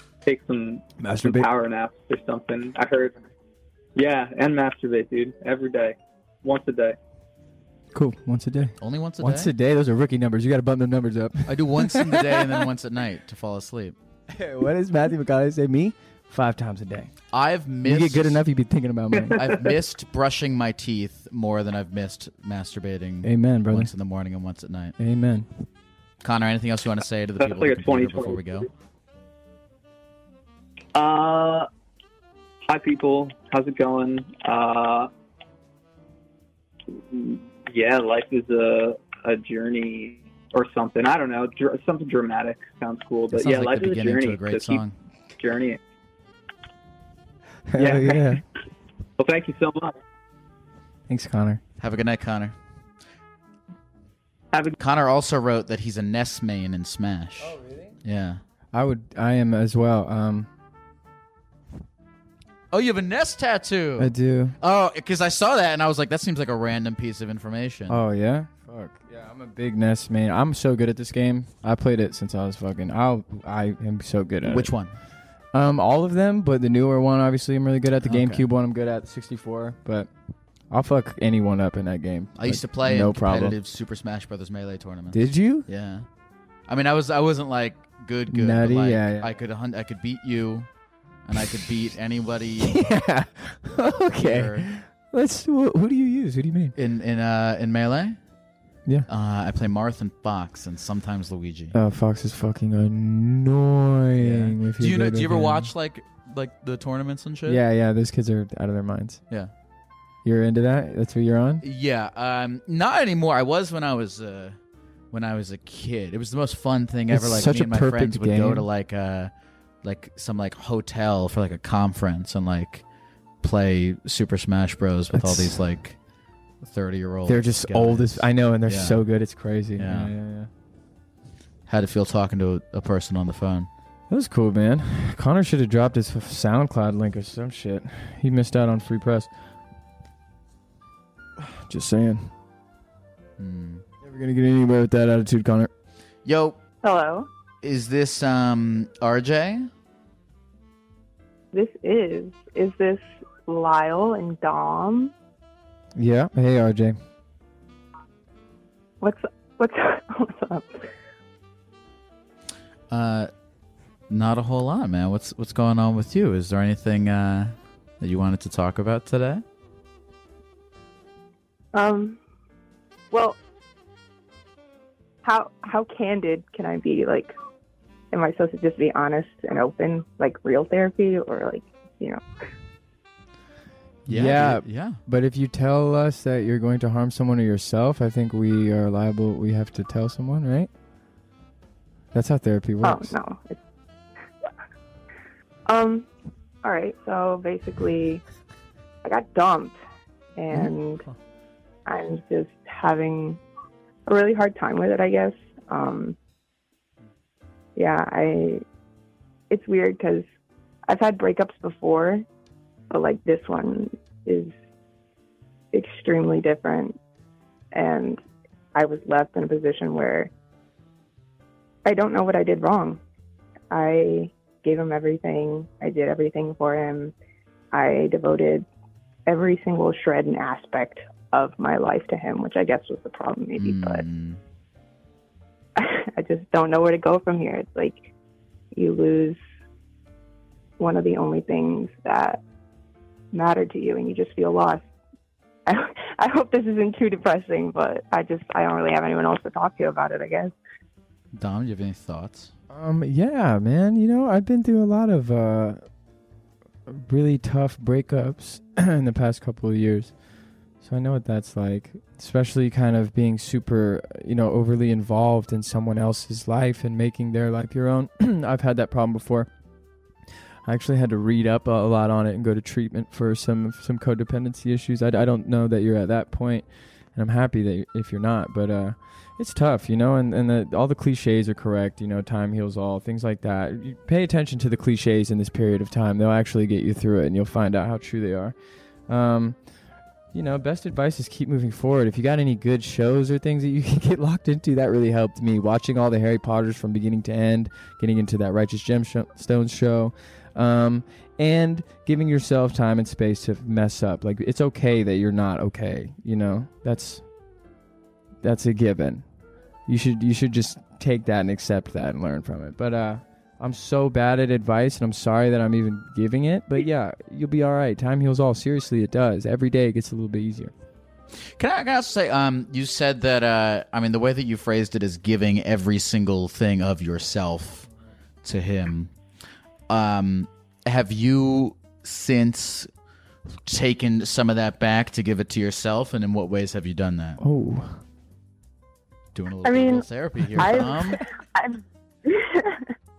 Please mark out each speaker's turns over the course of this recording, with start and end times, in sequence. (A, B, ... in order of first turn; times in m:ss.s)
0:00.2-0:03.2 A
0:01.0-0:01.5 B
0:04.0-0:07.0 A
0:07.9-0:12.7 B
0:08.8-0:09.5 C
0:11.5-0:13.9 C
0:14.3-0:17.1 B
0:17.3-0:18.4 C
0:17.8-0:19.4 B
0:19.4-0:24.9 C
0:23.2-0:23.9 B
0:25.0-0:25.5 B
0:26.2-0:28.7 C
0:27.4-0:28.6 A
0:30.9-0:31.7 A
0:32.7-0:35.1 A
0:36.9-0:44.8 A
0:43.3-0:44.9 C
0:45.4-0:45.8 A
0:47.7-0:48.4 B
0:47.8-0:48.4 A
0:49.2-0:50.0 A
0:51.1-0:51.6 B
0:51.8-0:52.5 C
0:54.8-0:58.4 C
0:57.4-0:57.9 B
0:58.7-1:00.5 B
1:02.7-1:08.0 C
1:04.0-1:04.6 B
1:07.9-1:14.7 B
1:14.4-1:14.9 C
1:15.5-1:20.1 B
1:18.0-1:18.4 C
1:20.7-1:23.6 B
1:22.4-1:26.0 C
1:25.1-1:25.7 B
1:26.7-1:30.7 C
1:28.3-1:29.3 B
1:31.2-1:32.8 C
1:32.6-1:36.8 B
1:34.2-1:34.7 C
1:36.8-1:38.2 C
1:39.1-1:41.7 C
1:41.7-1:45.7 B
1:44.2-1:47.6 C
1:47.4-1:49.2 B
1:50.2-1:51.6 B
1:51.6-1:54.6 C
1:55.1-1:59.3 C
1:57.1-1:58.7 B
1:59.8-2:02.8 C
2:03.4-2:06.0 C
2:05.1-2:05.6 B
2:06.6-2:09.0 C
2:07.2-2:10.5 B
2:09.8-2:10.1 C
2:11.7-2:13.7 C
2:14.1-2:19.3 B
2:21.4-2:22.3 B
2:23.4-2:23.8 C
2:24.0-2:25.7 B
2:26.2-2:26.6 C
2:26.8-2:27.3 D
2:27.6-2:29.7 C
2:31.5-2:35.1 D
2:36.0-2:37.0 B
2:39.0-2:40.8 D
2:42.9-2:43.3 C
2:44.1-2:49.4 C
2:51.7-2:52.2 D
2:53.1-2:53.4 D
2:55.2-2:57.3 D
2:58.1-3:02.2 D
3:04.0-3:10.7 B
3:04.1-3:05.0 C
3:12.1-3:13.1 B
3:12.8-3:13.6 D
3:15.7-3:16.1 D
3:16.6-3:18.2 D
3:19.0-3:19.8 D
3:20.4-3:21.0 D
3:21.8-3:23.4 D
3:24.1-3:26.2 D
3:27.8-3:28.6 D
3:29.5-3:30.3 D
3:30.9-3:32.2 D
3:32.9-3:34.5 D
3:35.7-3:37.0 D
3:37.7-3:38.2 D
3:38.7-3:40.3 D
3:41.8-3:43.0 D
3:43.7-3:47.1 D
3:47.7-3:48.6 D
3:49.3-3:54.0 D
3:53.6-3:54.4 C
3:55.8-3:58.1 D
3:58.7-3:59.4 D
4:00.8-4:02.4 D
4:03.3-4:04.8 D
4:05.7-4:10.5 D
4:11.3-4:12.5 C
4:12.7-4:15.8 B
4:16.9-4:20.1 B
4:20.8-4:29.5 B
4:30.6-4:48.5 B
4:49.1-4:49.6 B
4:50.3-5:07.2 B
5:08.4-5:09.2 B
5:09.9-5:20.7 B
5:21.6-5:27.9 C
5:28.4-5:29.1 C
5:29.9-5:32.9 C
5:33.6-5:37.4 C
5:37.4-5:38.0 B
5:39.3-5:41.2 C
5:39.6-5:42.8 D